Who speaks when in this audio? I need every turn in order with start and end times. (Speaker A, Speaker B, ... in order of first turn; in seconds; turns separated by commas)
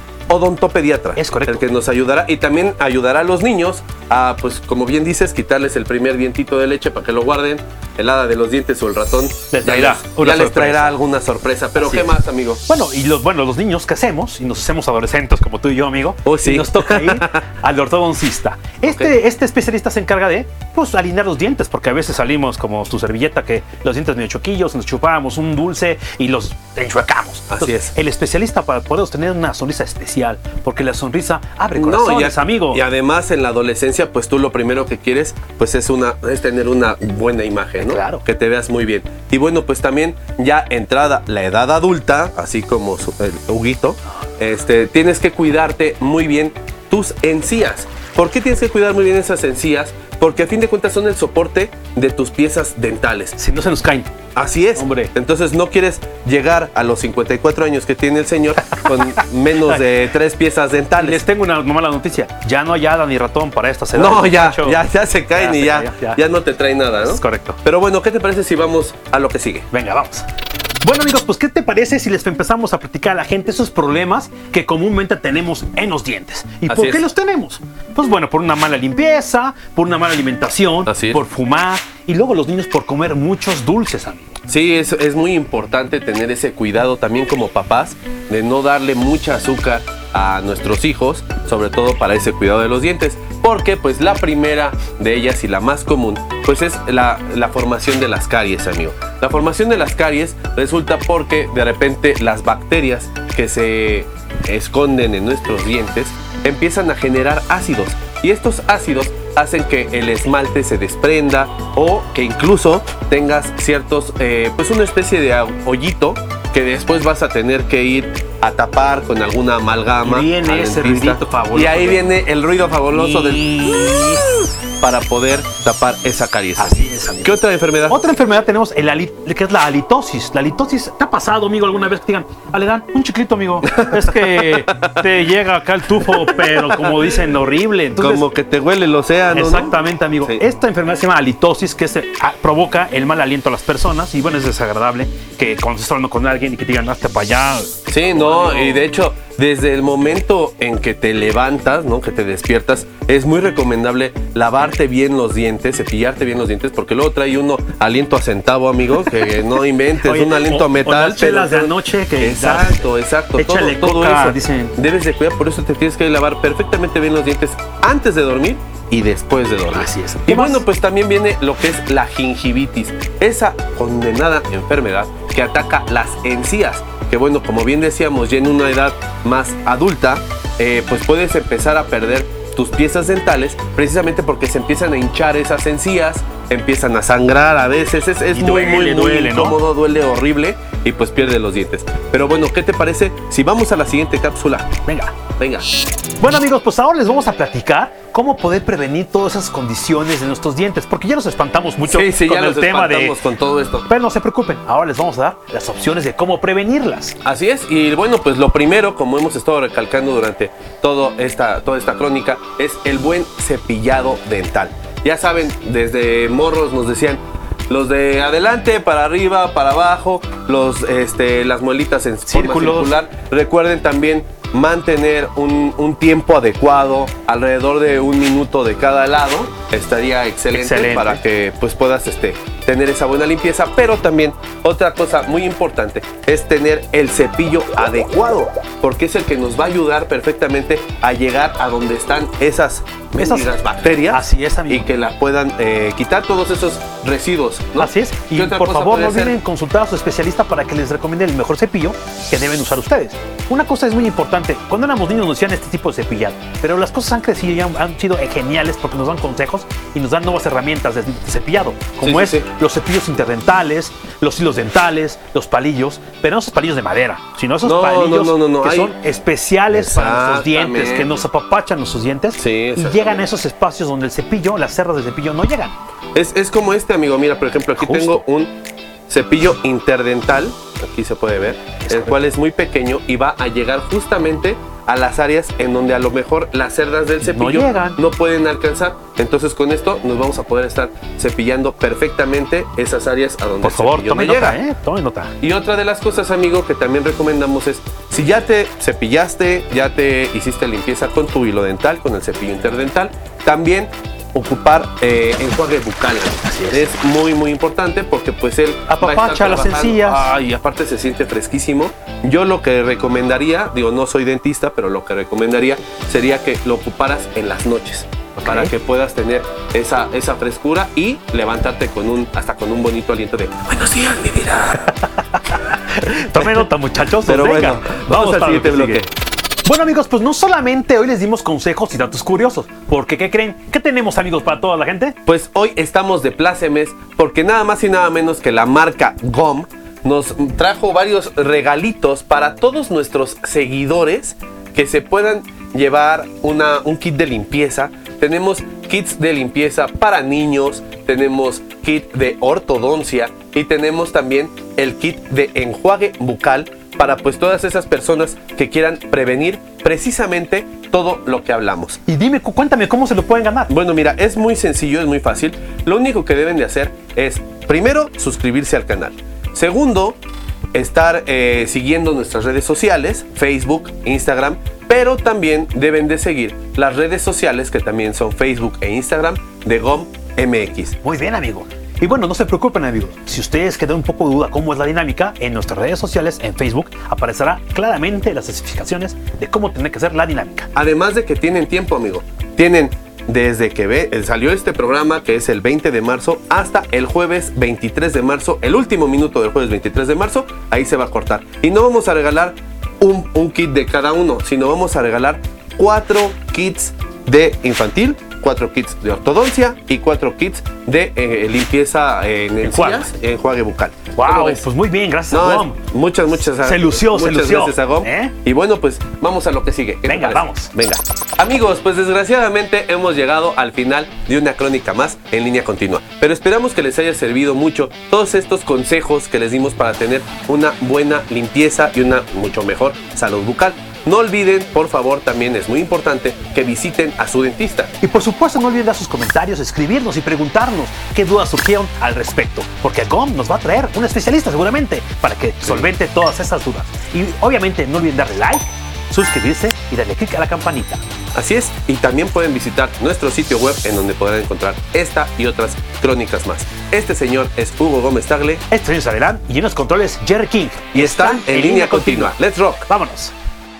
Speaker A: 0.3-12.6, Speaker B: 1.2-1.6, Speaker B: 9.5-10.9, Speaker B: 11.8-32.8, Speaker A: 16.2-17.4, Speaker A: 18.8-19.1, Speaker A: 27.5-27.9, Speaker A: 31.8-53.4, Speaker B: 37.8-38.2, Speaker B: 53.4-54.1, Speaker A: 54.4-61.2, Speaker B: 54.8-55.1, Speaker B: 61.0-66.2, Speaker A: 63.9-69.7, Speaker B: 67.0-67.6, Speaker B: 69.7-70.3, Speaker B: 70.8-84.4, Speaker A: 76.7-77.1, Speaker A: 80.9-81.2, Speaker A: 84.5-124.0, Speaker B: 120.0-122.1, Speaker B: 122.9-124.3, Speaker A: 124.8-128.0, Speaker B: 126.6-138.3, Speaker A: 133.6-135.1, Speaker A: 136.0-137.2, Speaker A: 137.9-140.4, Speaker B: 139.3-148.8, Speaker A: 147.9-194.7, Speaker B: 160.0-164.8, Speaker B: 169.7-170.6, Speaker B: 188.3-189.6, Speaker B: 194.9-195.2, Speaker A: 195.4-195.7, Speaker B: 196.2-203.2, Speaker A: 201.8-203.9, Speaker B: 203.9-207.2, Speaker A: 207.2-249.4, Speaker B: 222.3-223.0, Speaker B: 230.5-231.2, Speaker B: 243.2-243.5, Speaker B: 244.0-244.9, Speaker B: 247.8-275.8, Speaker A: 262.0-262.5, Speaker A: 267.6-269.0, Speaker A: 269.7-271.2, Speaker A: 272.4-273.3, Speaker A: 276.1-278.5, Speaker B: 277.8-278.2, Speaker A: 279.1-294.6, Speaker B: 281.8-282.2, Speaker B: 287.2-288.0, Speaker B: 293.6-295.3, Speaker A: 295.4-324.9, Speaker B: 306.4-306.9, Speaker B: 308.9-310.3, Speaker B: 318.4-318.7, Speaker B: 325.5-329.1, Speaker A: 326.4-326.7, Speaker A: 327.2-329.1, Speaker B: 329.6-335.2, Speaker A: 335.3-362.0, Speaker B: 362.1-363.7, Speaker A: 363.7-370.2, Speaker A: 370.7-381.0, Speaker B: 381.0-390.7, Speaker A: 390.8-414.6, Speaker B: 412.6-413.1, Speaker B: 414.2-415.8, Speaker A: 415.3-437.9, Speaker B: 416.6-418.3, Speaker B: 420.1-420.7, Speaker B: 438.0-451.0, Speaker A: 451.4-458.6, Speaker B: 458.7-462.3, Speaker A: 460.9-462.9, Speaker B: 462.9-463.3